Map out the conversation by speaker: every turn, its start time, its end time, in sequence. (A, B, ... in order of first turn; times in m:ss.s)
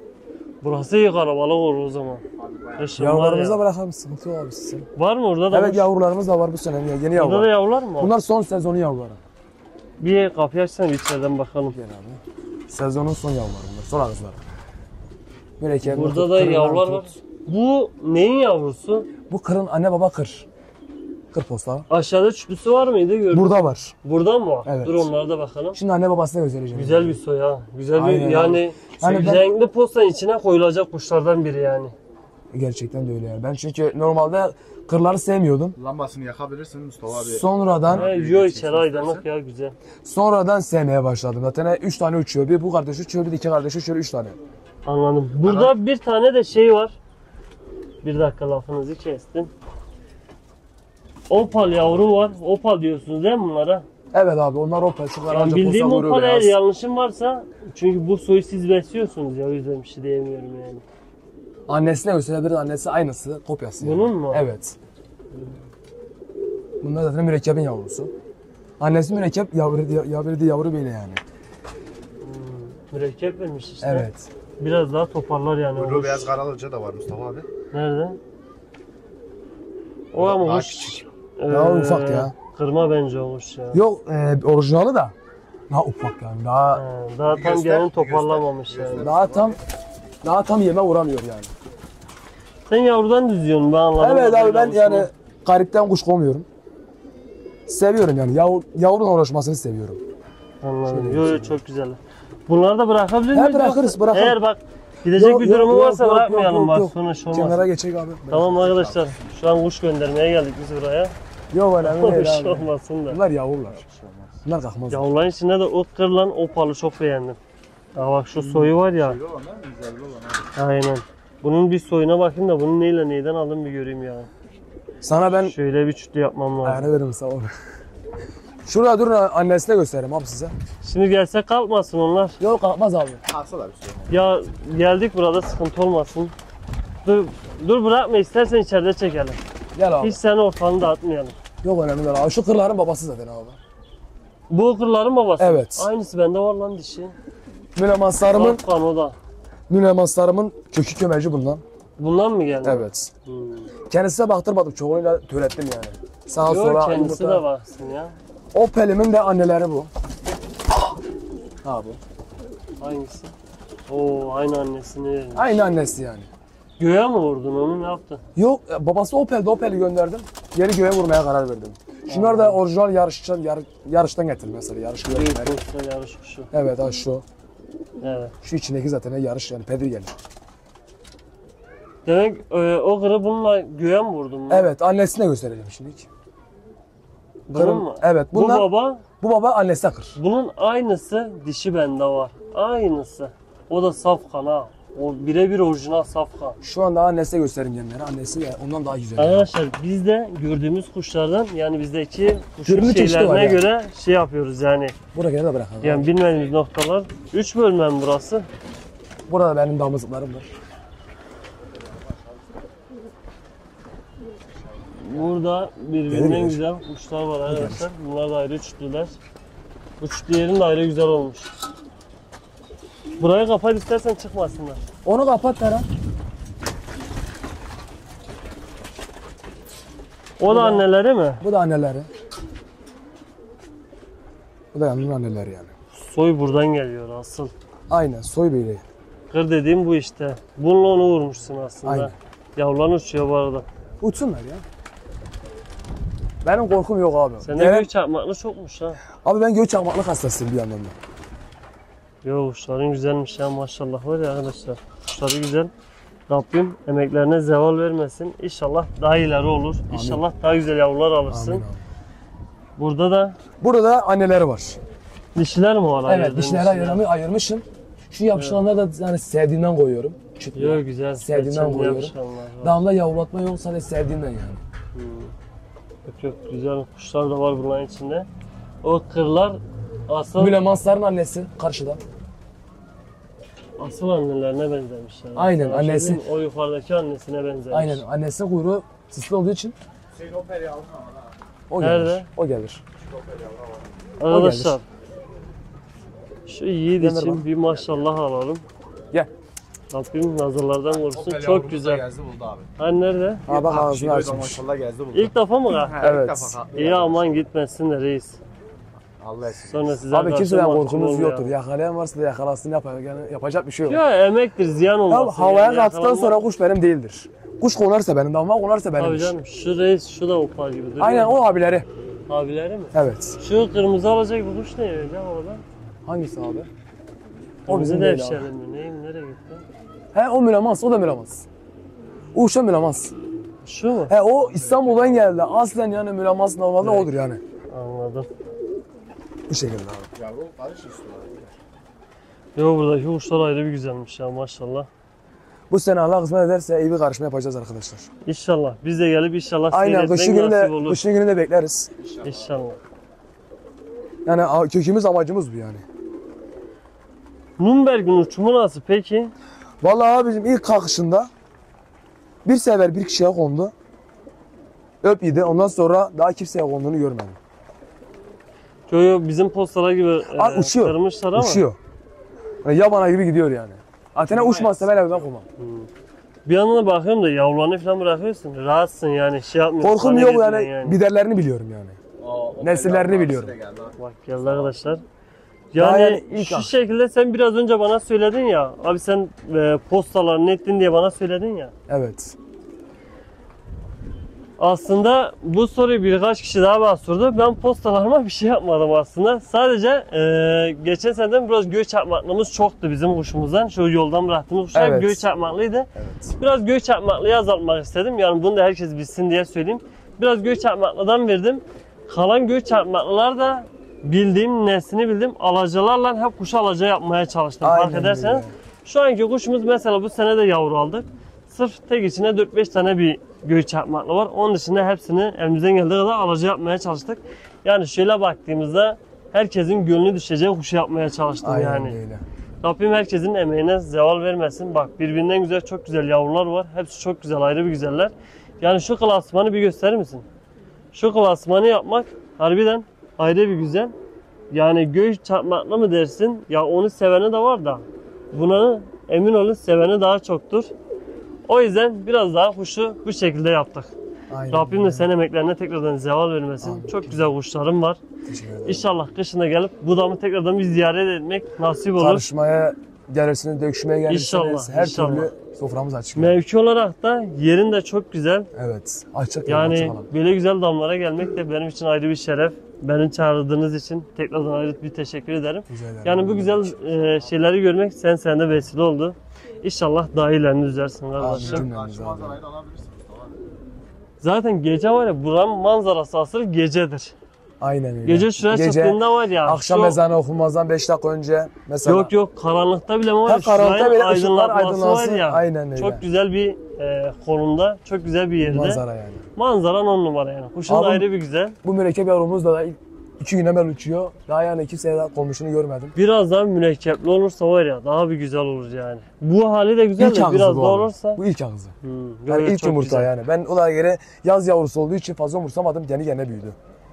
0:00.6-0:02.2 A
0:02.4-0:03.1 B
0:02.8-0:03.6 A
0:03.0-0:04.9 C
0:05.0-0:05.9 A
0:05.5-0:09.2 C
0:07.1-0:08.1 A
0:10.0-0:11.8 A
0:11.7-0:14.4 C
0:15.6-0:17.2 C
0:15.8-0:19.1 A
0:19.3-0:20.4 C
0:21.3-0:21.8 C
0:21.9-0:25.8 A
0:23.3-0:23.9 C
0:24.6-0:25.1 C
0:25.7-0:27.2 C
0:26.7-0:31.9 A
0:28.0-0:29.4 C
0:32.5-0:35.8 C
0:35.8-0:39.2 B
0:37.2-0:38.1 C
0:37.9-0:39.8 A
0:40.0-0:44.4 C
0:44.8-0:47.0 A
0:45.4-0:45.7 B
0:48.0-0:49.5 A
0:51.3-0:53.8 A
0:54.1-0:56.6 C
0:55.3-1:00.8 A
1:01.7-1:04.7 C
1:03.8-1:04.4 A
1:06.8-1:08.1 C
1:08.8-1:11.2 C
1:12.2-1:14.1 A
1:13.8-1:14.3 C
1:14.6-1:16.3 A
1:15.8-1:17.5 B
1:17.7-1:18.2 A
1:20.1-1:23.8 A
1:20.2-1:21.0 B
1:21.5-1:22.3 C
1:23.7-1:25.1 C
1:25.7-1:26.8 C
1:26.7-1:29.1 A
1:27.3-1:29.6 B
1:29.0-1:29.6 C
1:30.2-1:31.5 C
1:32.7-1:35.1 A
1:34.0-1:36.4 C
1:37.7-1:40.0 C
1:40.6-1:47.6 A
1:40.9-1:41.6 C
1:43.3-1:44.4 C
1:45.1-1:48.6 C
1:48.3-1:51.1 A
1:48.4-1:49.3 B
1:51.5-1:53.8 C
1:51.8-1:53.2 A
1:53.6-1:54.4 B
1:54.4-1:55.1 C
1:54.9-1:57.4 A
1:57.9-1:59.2 A
1:58.4-2:00.5 B
2:00.5-2:04.3 A
2:05.0-2:05.5 C
2:05.3-2:06.9 A
2:06.6-2:07.5 C
2:08.6-2:10.5 C
2:10.8-2:12.4 A
2:12.4-2:13.2 C
2:13.2-2:14.2 B
2:14.1-2:16.3 A
2:17.0-2:19.4 A
2:19.7-2:20.2 C
2:20.0-2:21.3 A
2:21.6-2:23.6 C
2:24.5-2:27.1 A
2:25.4-2:25.9 C
2:27.7-2:28.6 C
2:28.3-2:29.2 A
2:29.7-2:31.6 C
2:32.0-2:33.7 A
2:32.6-2:33.1 C
2:33.9-2:37.4 C
2:36.4-2:38.2 A
2:38.5-2:39.9 C
2:41.6-2:42.0 C
2:42.8-2:43.3 A
2:43.9-2:45.6 A
2:45.3-2:46.3 C
2:46.8-2:48.2 A
2:48.4-2:55.6 C
2:52.1-2:52.6 A
2:55.1-2:56.5 A
2:56.5-2:57.2 C
2:58.0-2:58.3 A
2:58.4-3:00.1 C
3:02.0-3:04.7 A
3:04.5-3:06.1 C
3:07.5-3:09.0 A
3:07.5-3:08.7 C
3:09.2-3:10.2 C
3:10.2-3:16.6 A
3:16.6-3:19.5 C
3:19.2-3:25.0 A
3:22.6-3:23.6 C
3:25.1-3:26.1 C
3:25.8-3:28.5 A
3:29.3-3:30.5 C
3:31.7-3:32.4 B
3:34.6-3:35.3 B
3:34.9-3:39.2 A
3:36.1-3:36.6 C
3:37.4-3:37.9 C
3:40.0-3:41.5 A
3:43.2-3:44.8 A
3:45.0-3:45.9 C
3:50.4-3:51.4 A
3:50.5-3:50.8 C
3:51.4-3:52.1 C
3:54.7-3:55.7 C
3:55.9-3:57.5 A
3:57.9-3:58.8 C
3:59.3-4:03.6 A
4:01.8-4:02.1 C
4:04.0-4:04.6 C
4:06.4-4:07.9 C
4:07.4-4:09.0 A
4:09.2-4:11.0 C
4:12.2-4:15.7 A
4:16.3-4:21.6 A
4:19.9-4:20.2 C
4:21.3-4:21.8 C
4:22.8-4:23.4 A
4:23.6-4:24.8 C
4:25.3-4:27.0 A
4:26.0-4:34.6 C
4:28.3-4:28.6 A
4:30.5-4:32.8 A
4:34.9-4:35.3 A
4:36.0-4:38.3 A
4:38.8-4:40.6 A
4:40.4-4:42.0 C
4:43.8-4:48.0 A
4:45.3-4:46.2 C
4:47.7-4:49.7 C
4:50.1-4:51.4 B
4:51.7-4:52.8 C
4:51.8-4:52.3 A
4:53.0-4:54.0 B
4:54.2-4:54.8 A
4:54.3-4:54.8 C
4:56.5-4:58.6 A
4:57.0-4:57.4 C
4:59.9-5:02.0 A
5:00.9-5:02.7 B
5:02.8-5:03.4 A
5:03.5-5:04.6 C
5:03.5-5:07.4 B
5:05.1-5:05.9 A
5:06.0-5:06.5 C
5:06.7-5:08.4 A
5:09.2-5:10.0 B
5:09.6-5:11.5 A
5:10.1-5:14.0 C
5:13.9-5:16.4 A
5:15.1-5:19.3 C
5:19.0-5:21.4 A
5:21.0-5:21.9 C
5:22.3-5:25.6 A
5:22.9-5:23.4 C
5:26.0-5:26.7 C
5:27.6-5:28.5 C
5:27.7-5:29.6 A
5:30.1-5:31.4 C
5:32.3-5:33.1 C
5:33.6-5:34.1 A
5:34.1-5:37.4 C
5:34.5-5:35.4 B
5:36.8-5:37.1 A
5:37.7-5:38.3 A
5:39.5-5:40.1 C
5:40.1-5:41.5 B
5:42.6-5:44.9 A
5:45.7-5:48.1 C
5:48.2-5:51.0 A
5:49.7-5:51.9 C
5:52.0-5:52.5 B
5:52.2-5:52.8 A
5:54.2-5:55.8 C
5:57.6-5:59.3 A
5:59.8-6:01.3 C
6:02.4-6:03.7 C
6:05.0-6:07.4 C
6:08.9-6:11.6 A
6:10.3-6:11.8 C
6:12.6-6:15.4 C
6:14.3-6:15.2 B
6:15.6-6:15.9 A
6:16.4-6:21.0 A
6:19.8-6:22.0 C
6:22.2-6:24.7 B
6:22.6-6:23.5 C
6:24.0-6:25.0 A
6:25.7-6:31.7 A
6:25.8-6:26.7 C
6:31.9-6:32.3 C
6:34.6-7:12.0 A
6:44.7-6:45.2 C
6:45.9-6:46.4 C
6:57.6-6:58.5 C
7:11.4-7:12.2 C
7:12.6-7:20.2 A
7:20.9-7:23.9 A
7:24.5-7:30.7 A
7:31.5-7:33.9 A
7:34.3-7:35.1 C
7:34.5-7:38.0 A
7:36.6-7:37.3 C
7:38.2-7:38.9 C
7:38.6-7:42.2 A
7:42.0-7:46.4 C
7:44.1-7:45.3 A
7:46.1-7:48.5 A
7:48.5-7:50.1 C
7:49.5-8:01.7 A
7:55.7-7:56.9 C
8:01.2-8:02.4 C
8:01.3-8:03.4 B
8:04.2-8:07.1 A
8:07.6-8:12.1 C
8:08.0-8:10.0 A
8:11.8-8:18.8 A
8:13.2-8:16.0 C
8:18.4-8:19.2 C
8:19.4-8:21.6 A
8:20.7-8:21.1 C
8:21.6-8:25.9 C
8:25.9-8:31.2 A
8:30.0-8:31.7 C
8:31.8-8:33.1 A
8:32.3-8:36.6 C